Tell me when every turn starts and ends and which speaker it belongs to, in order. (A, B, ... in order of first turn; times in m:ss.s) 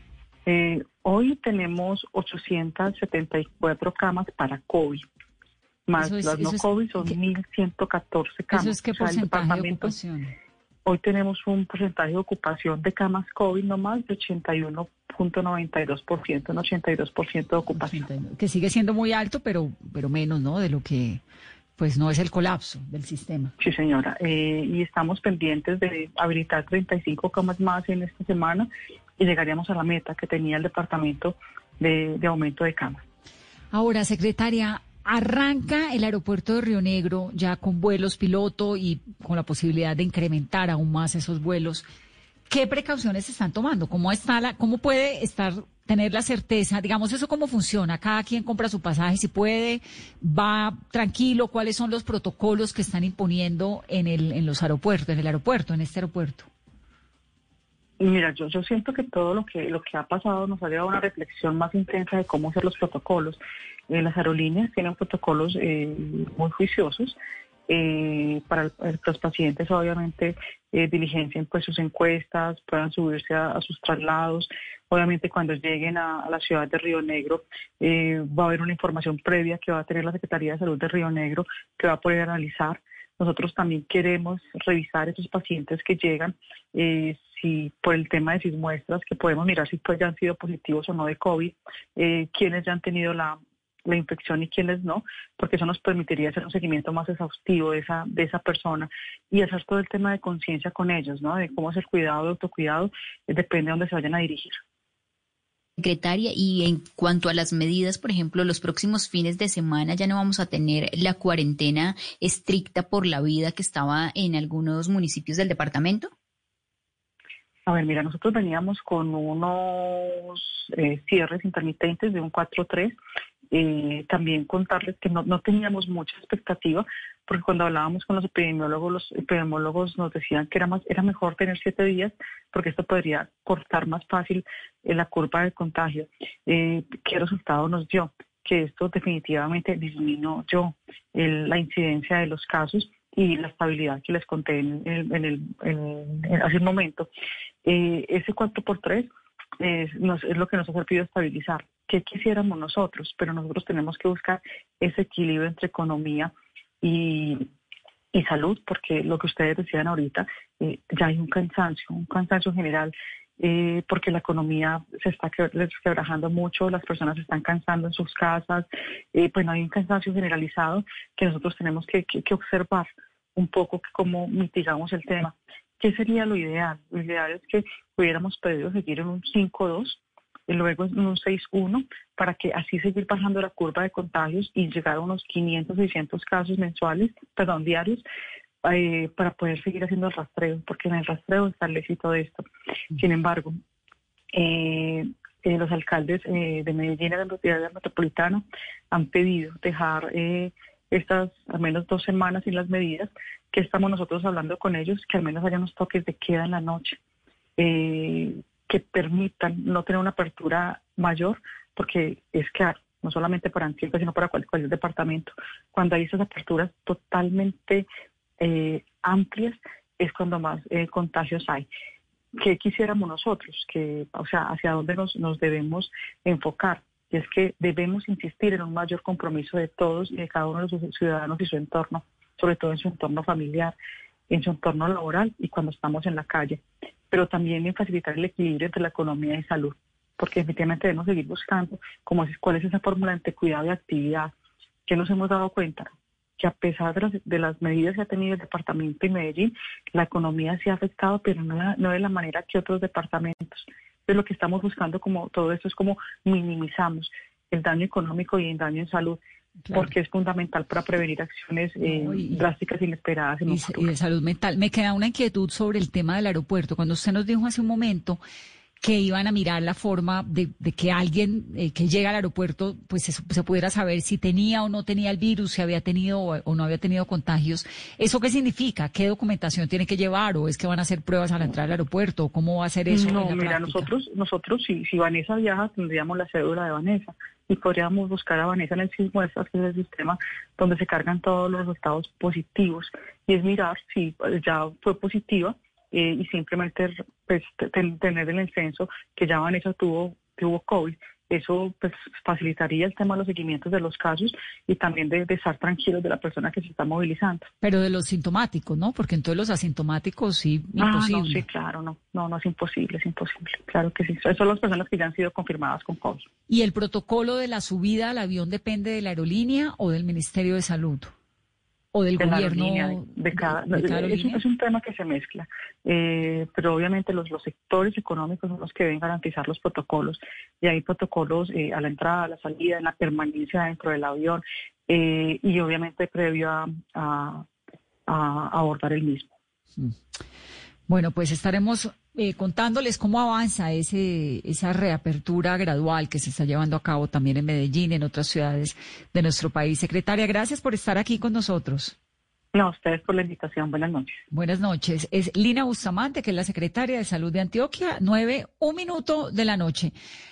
0:00.4-0:05.0 A
0:05.9-0:10.0 A
0:06.0-0:07.2 B
0:08.5-0:10.3 B
0:10.8-0:18.0 A
0:17.7-0:21.2 B
0:21.8-0:23.5 B
0:23.6-0:33.0 A
0:33.7-0:41.8 B
0:42.5-0:56.5 B
0:58.0-1:07.2 A
1:07.7-1:44.6 A
1:45.8-1:56.1 C
1:57.7-2:03.0 A
2:03.5-2:27.1 A
2:27.6-2:29.1 A
2:29.6-2:37.5 A
2:38.1-3:08.0 A
3:08.6-3:13.6 A
3:14.3-3:27.0 A
3:27.6-3:37.9 A
3:38.4-3:41.7 A
3:42.4-3:53.7 A
3:54.3-4:04.3 A
4:04.9-4:19.2 A
4:19.6-4:19.9 B
4:19.7-4:23.9 A
4:21.8-4:22.4 B
4:23.5-4:28.2 B
4:28.8-4:43.9 B
4:42.9-5:07.5 A
5:07.6-5:11.4 B
5:10.8-5:16.2 A
5:16.5-5:21.1 B
5:21.9-5:24.4 B
5:22.2-5:37.4 A
5:38.1-5:39.3 A
5:40.9-5:51.9 B
5:52.5-5:54.2 A
5:54.3-5:59.9 B